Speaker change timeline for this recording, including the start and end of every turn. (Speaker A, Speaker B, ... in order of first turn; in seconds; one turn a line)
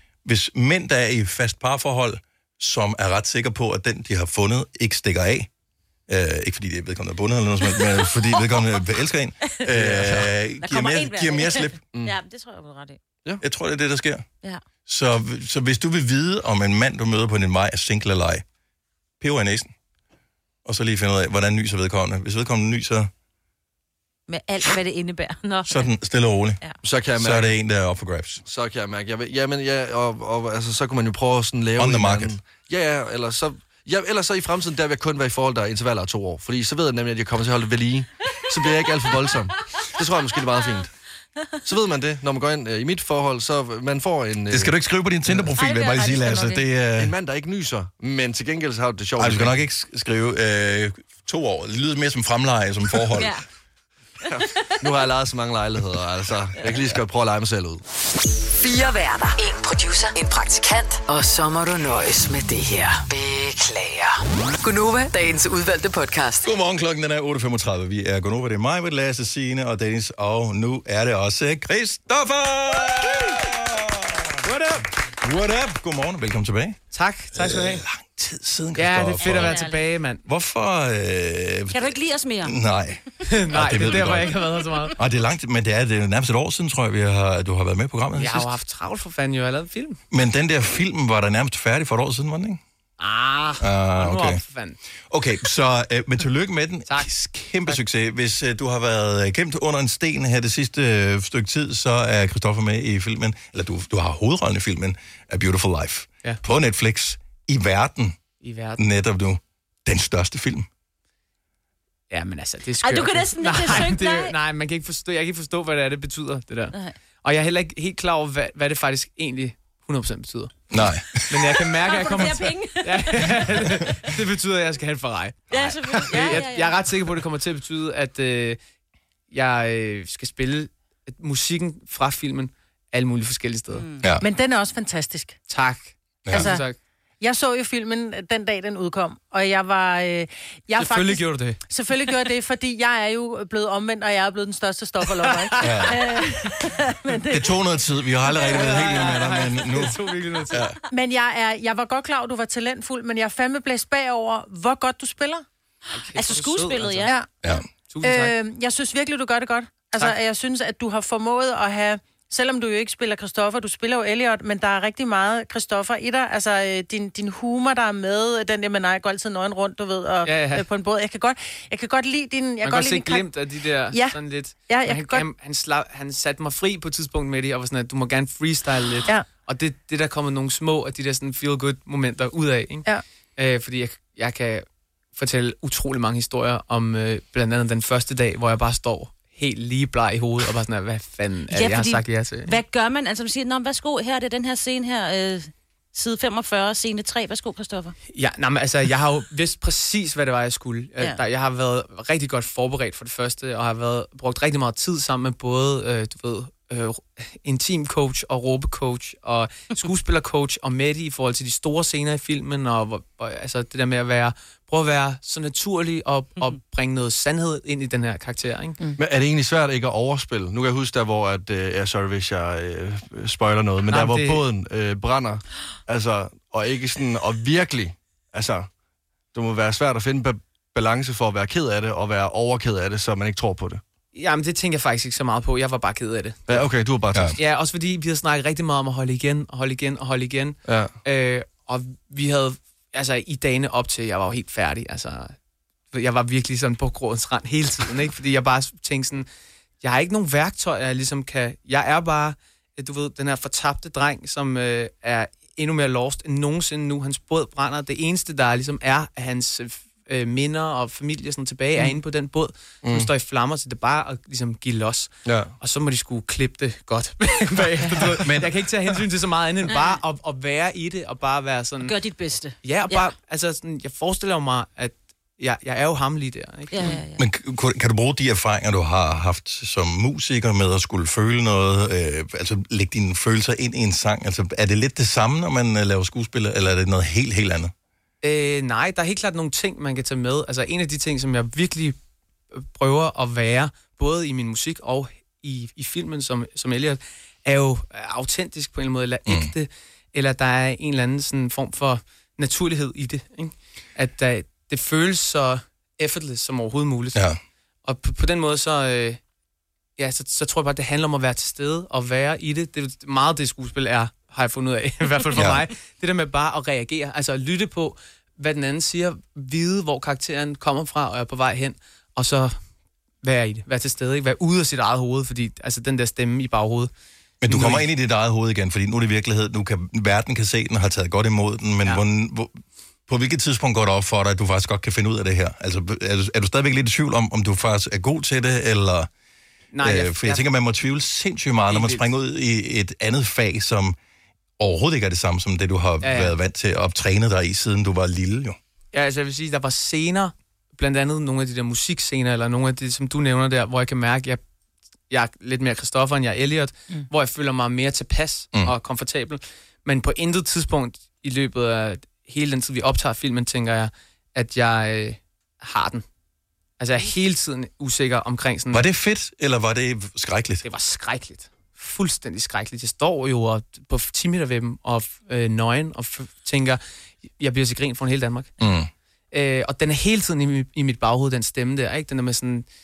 Speaker A: 0.2-5.5
Speaker A: 6.1-11.8
Speaker B: 9.7-10.3
Speaker C: 10.6-13.0
Speaker A: 13.4-14.2
Speaker A: 14.9-18.4
Speaker A: 19.2-19.7
Speaker A: 20.6-23.1
Speaker C: 24.3-25.9
Speaker A: 25.7-26.6
Speaker B: 26.8-27.6
Speaker A: 27.2-28.4
Speaker B: 28.4-40.9
Speaker A: 31.8-32.4
Speaker B: 41.6-44.7
Speaker A: 44.5-47.1
Speaker C: 45.6-46.6
Speaker B: 47.0-49.6
Speaker A: 49.2-53.4
Speaker C: 53.1-53.4
Speaker C: 54.2-54.7
Speaker B: 54.3-57.8
Speaker D: 58.6-66.5
Speaker A: 66.4-74.5
Speaker E: 74.5-74.8
Speaker A: 75.2-76.8
Speaker E: 76.9-77.8
Speaker A: 77.3-79.6
Speaker E: 78.8-80.2
Speaker C: 79.2-79.9
Speaker A: 80.3-84.3
Speaker C: 81.7-82.5
Speaker E: 83.3-84.9
Speaker A: 85.0-88.5
Speaker E: 88.2-90.0
Speaker A: 90.1-92.6
Speaker E: 93.0-94.8
Speaker A: 93.6-94.4
Speaker A: 95.1-108.2
Speaker E: 108.4-108.8
Speaker A: 108.8-110.7
Speaker E: 112.1-120.5
Speaker C: 112.8-114.3
Speaker A: 120.7-121.5
Speaker E: 121.3-128.6
Speaker C: 121.8-124.0
Speaker C: 125.5-126.8
Speaker E: 129.3-133.8
Speaker C: 133.7-134.0
Speaker F: 134.2-135.4
Speaker E: 135.5-136.8
Speaker A: 136.2-136.6
Speaker F: 136.3-136.7
Speaker F: 137.2-147.6
Speaker E: 140.8-141.6
Speaker E: 145.2-145.9
Speaker A: 145.6-146.0
Speaker A: 147.3-149.9
Speaker E: 148.4-150.7
Speaker A: 150.5-150.7
Speaker F: 150.9-155.4
Speaker E: 155.9-157.1
Speaker C: 156.1-157.1
Speaker E: 157.9-158.3
Speaker F: 158.0-173.3
Speaker E: 170.2-170.7
Speaker E: 172.6-192.6
Speaker F: 173.9-175.2
Speaker C: 191.5-197.9
Speaker E: 198.1-218.8
Speaker B: 219.0-228.7
Speaker E: 223.9-224.4
Speaker B: 229.3-233.8
Speaker E: 234.1-236.7
Speaker B: 236.5-237.4
Speaker E: 237.4-245.4
Speaker B: 240.6-240.9
Speaker E: 245.9-249.3
Speaker E: 249.8-271.9
Speaker B: 262.8-263.1
Speaker B: 265.3-265.5
Speaker A: 268.2-268.5
Speaker C: 269.7-270.0
Speaker C: 271.8-273.1
Speaker E: 272.6-276.9
Speaker C: 276.7-277.2
Speaker A: 277.2-287.7
Speaker E: 288.2-292.0
Speaker E: 292.6-307.2
Speaker E: 307.8-309.2
Speaker E: 310.0-322.6
Speaker A: 315.4-315.7
Speaker E: 323.2-326.9
Speaker A: 327.4-339.1
Speaker E: 327.4-327.9
Speaker E: 339.7-340.4
Speaker A: 339.8-344.0
Speaker E: 341.7-342.1
Speaker A: 344.6-348.6
Speaker E: 346.0-346.3
Speaker E: 348.9-354.4
Speaker E: 355.1-366.1
Speaker E: 366.8-368.8
Speaker A: 368.7-370.6
Speaker E: 370.7-376.8
Speaker E: 377.4-378.5
Speaker A: 378.6-378.9
Speaker E: 379.3-382.7